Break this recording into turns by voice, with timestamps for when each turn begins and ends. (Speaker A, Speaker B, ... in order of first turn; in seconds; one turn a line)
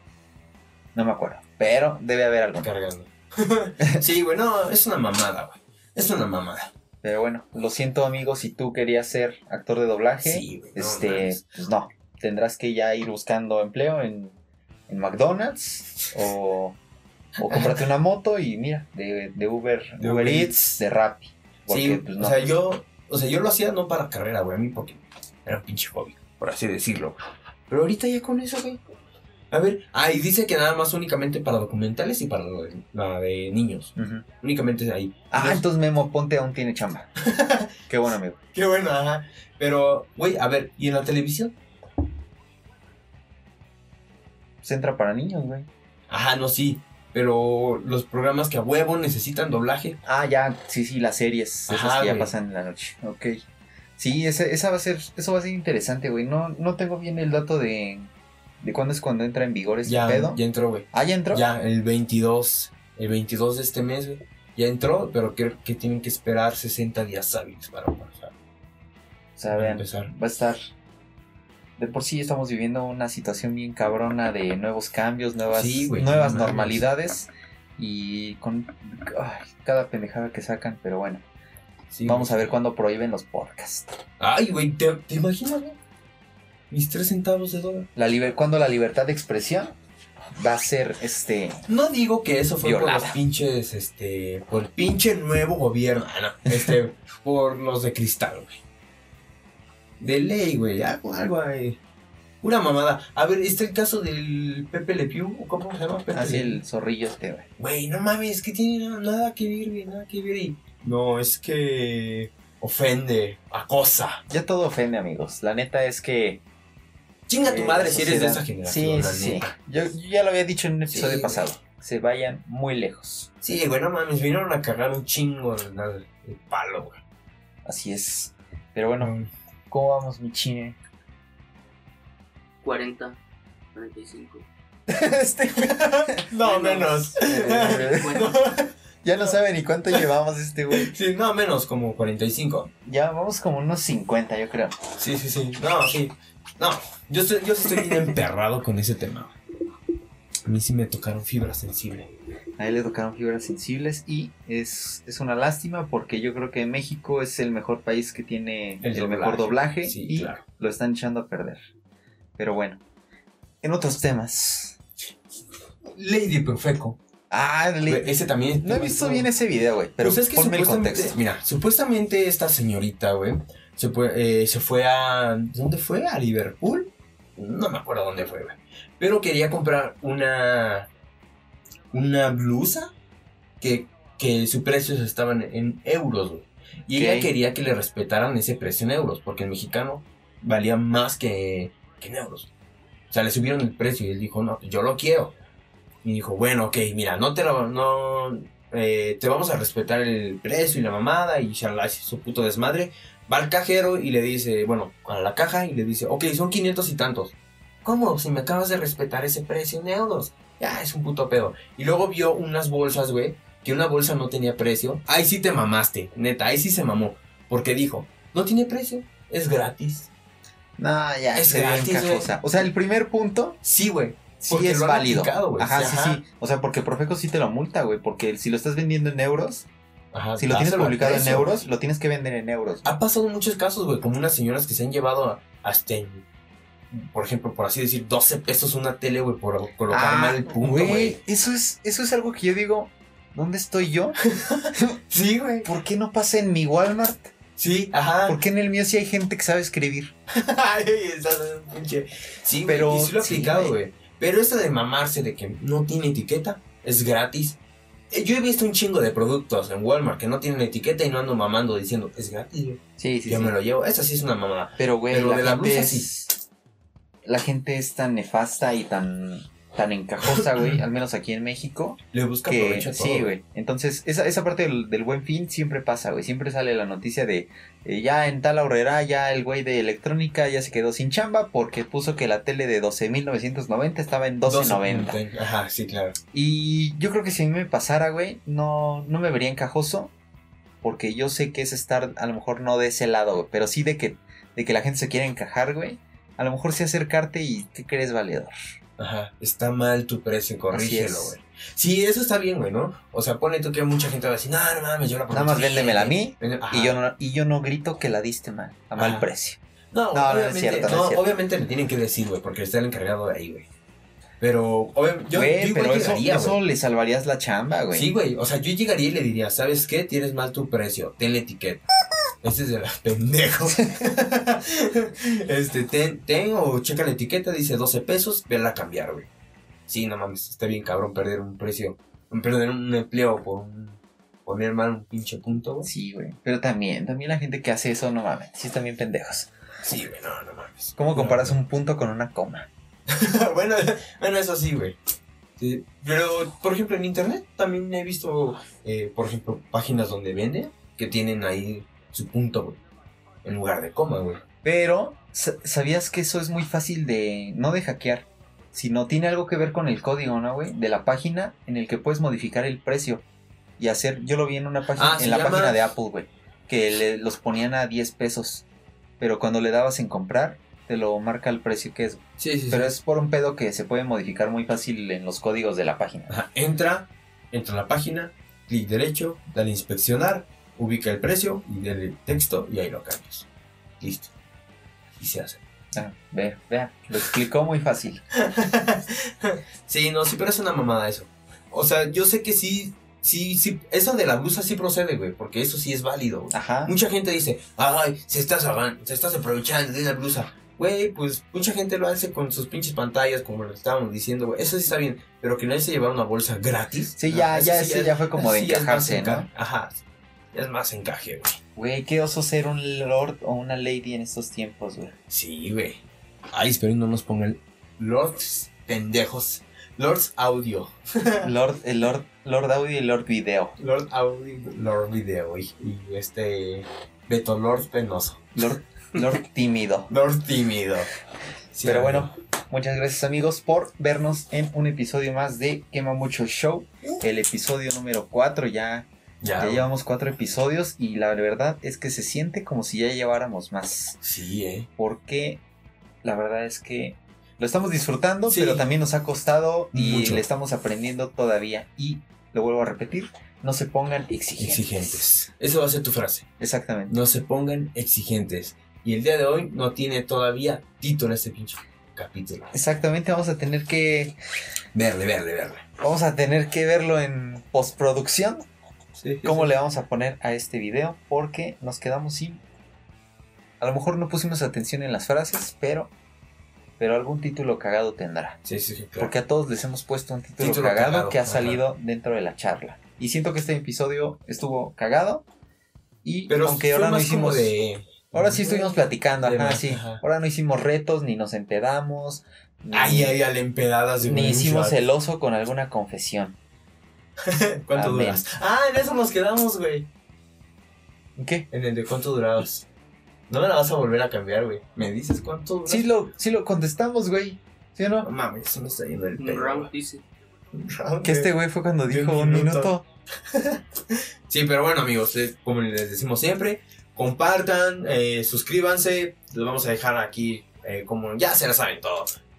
Speaker A: 0.9-2.7
Speaker B: 2.6-6.7
Speaker A: 7.0-14.4
Speaker B: 10.2-11.4
Speaker A: 14.9-16.8
Speaker A: 17.4-22.5
Speaker B: 17.5-17.8
Speaker B: 20.0-20.5
Speaker B: 21.7-27.2
Speaker B: 27.7-28.8
Speaker B: 29.5-35.6
Speaker A: 34.0-34.2
Speaker A: 35.3-37.1
Speaker B: 37.2-37.7
Speaker A: 37.9-38.4
Speaker B: 38.5-41.5
Speaker A: 44.6-45.7
Speaker B: 46.1-50.0
Speaker A: 50.0-53.4
Speaker B: 51.7-52.3
Speaker A: 54.0-60.4
Speaker B: 59.8-68.3
Speaker A: 60.9-61.5
Speaker A: 69.4-70.6
Speaker B: 69.5-70.1
Speaker A: 71.8-81.2
Speaker B: 75.5-76.9
Speaker B: 81.9-82.5
Speaker A: 82.0-83.9
Speaker B: 84.2-85.8
Speaker B: 86.7-87.9
Speaker A: 88.0-89.7
Speaker A: 90.4-91.6
Speaker B: 91.7-98.6
Speaker A: 92.6-93.2
Speaker B: 100.0-101.8
Speaker B: 102.4-106.6
Speaker A: 106.1-107.5
Speaker B: 107.6-114.2
Speaker A: 114.3-116.4
Speaker B: 117.3-119.5
Speaker A: 117.4-123.3
Speaker B: 120.9-121.4
Speaker B: 123.4-127.0
Speaker A: 127.6-129.1
Speaker B: 129.0-129.3
Speaker A: 129.7-130.8
Speaker C: 132.6-133.2
Speaker C: 133.7-134.4
Speaker A: 134.9-136.3
Speaker B: 135.6-138.7
Speaker C: 136.4-137.0
Speaker A: 137.1-138.3
Speaker C: 137.6-138.4
Speaker A: 139.0-140.9
Speaker B: 140.7-142.7
Speaker A: 142.8-144.8
Speaker B: 145.0-149.3
Speaker B: 150.5-152.1
Speaker A: 152.6-161.6
Speaker B: 158.8-160.4
Speaker A: 162.4-162.8
Speaker A: 163.6-164.8
Speaker B: 165.8-167.0
Speaker A: 167.3-171.1
Speaker B: 167.8-169.3
Speaker B: 170.0-180.9
Speaker B: 181.9-182.9
Speaker B: 183.6-192.5
Speaker A: 186.9-187.3
Speaker B: 193.1-195.3
Speaker B: 196.0-220.1
Speaker A: 220.8-223.6
Speaker B: 221.3-222.3
Speaker B: 223.6-226.2
Speaker A: 224.4-229.7
Speaker B: 230.1-231.6
Speaker A: 230.4-232.9
Speaker B: 232.8-236.2
Speaker B: 236.9-241.2
Speaker A: 239.9-244.2
Speaker B: 244.2-245.7
Speaker A: 245.6-247.3
Speaker B: 247.6-248.4
Speaker A: 248.3-250.1
Speaker B: 250.3-257.6
Speaker A: 252.7-253.7
Speaker B: 258.1-266.1
Speaker A: 263.0-263.5
Speaker A: 264.8-266.3
Speaker A: 267.2-285.2
Speaker B: 270.2-270.8
Speaker B: 272.1-273.3
Speaker B: 284.4-286.1
Speaker A: 286.3-290.1
Speaker A: 290.8-298.5
Speaker B: 299.0-307.0
Speaker A: 300.7-301.3
Speaker A: 305.3-309.6
Speaker B: 308.9-309.3
Speaker B: 309.9-313.6
Speaker A: 310.1-311.3
Speaker B: 314.4-316.6
Speaker A: 315.3-318.1
Speaker B: 317.9-321.8
Speaker B: 322.4-329.3
Speaker B: 329.9-335.9
Speaker A: 335.8-339.5
Speaker B: 339.8-341.6
Speaker A: 341.0-342.7
Speaker B: 343.1-345.0
Speaker B: 345.6-352.8
Speaker B: 353.4-354.4
Speaker A: 354.6-363.2
Speaker A: 363.8-368.6
Speaker B: 364.9-365.8
Speaker A: 369.2-376.4
Speaker B: 372.4-372.9
Speaker B: 376.3-383.5
Speaker B: 384.0-384.3
Speaker B: 385.2-385.6
Speaker A: 385.9-388.2
Speaker B: 388.3-411.6
Speaker A: 396.5-396.9
Speaker A: 407.2-409.5
Speaker A: 411.8-415.1
Speaker B: 415.3-421.5
Speaker A: 421.4-423.8
Speaker B: 423.8-428.4
Speaker A: 428.5-430.1
Speaker B: 430.1-431.1
Speaker B: 431.7-432.3
Speaker A: 431.8-439.1
Speaker B: 439.4-439.9
Speaker A: 439.6-444.2
Speaker B: 444.2-444.9
Speaker A: 445.0-445.6
Speaker A: 446.2-455.2
Speaker B: 448.5-448.9
Speaker B: 449.9-450.4
Speaker B: 454.6-456.5
Speaker A: 456.6-457.1
Speaker B: 457.1-462.7
Speaker A: 462.7-464.4
Speaker B: 464.9-465.8
Speaker A: 466.0-468.6
Speaker B: 469.2-469.7
Speaker A: 469.4-472.6
Speaker A: 473.8-476.1
Speaker A: 477.0-478.6
Speaker B: 478.6-479.3
Speaker A: 479.2-485.4
Speaker B: 480.6-481.8
Speaker A: 486.2-487.7
Speaker B: 486.5-490.2
Speaker A: 488.3-493.4
Speaker B: 492.9-495.0
Speaker A: 494.2-496.6
Speaker B: 497.4-500.1
Speaker A: 497.9-498.4
Speaker A: 501.4-501.7
Speaker B: 501.7-502.9
Speaker B: 503.5-506.1
Speaker A: 505.9-508.3
Speaker B: 508.2-509.9
Speaker C: 509.4-510.2
Speaker B: 510.7-511.5
Speaker A: 511.2-513.0
Speaker B: 512.1-512.9
Speaker B: 513.5-522.3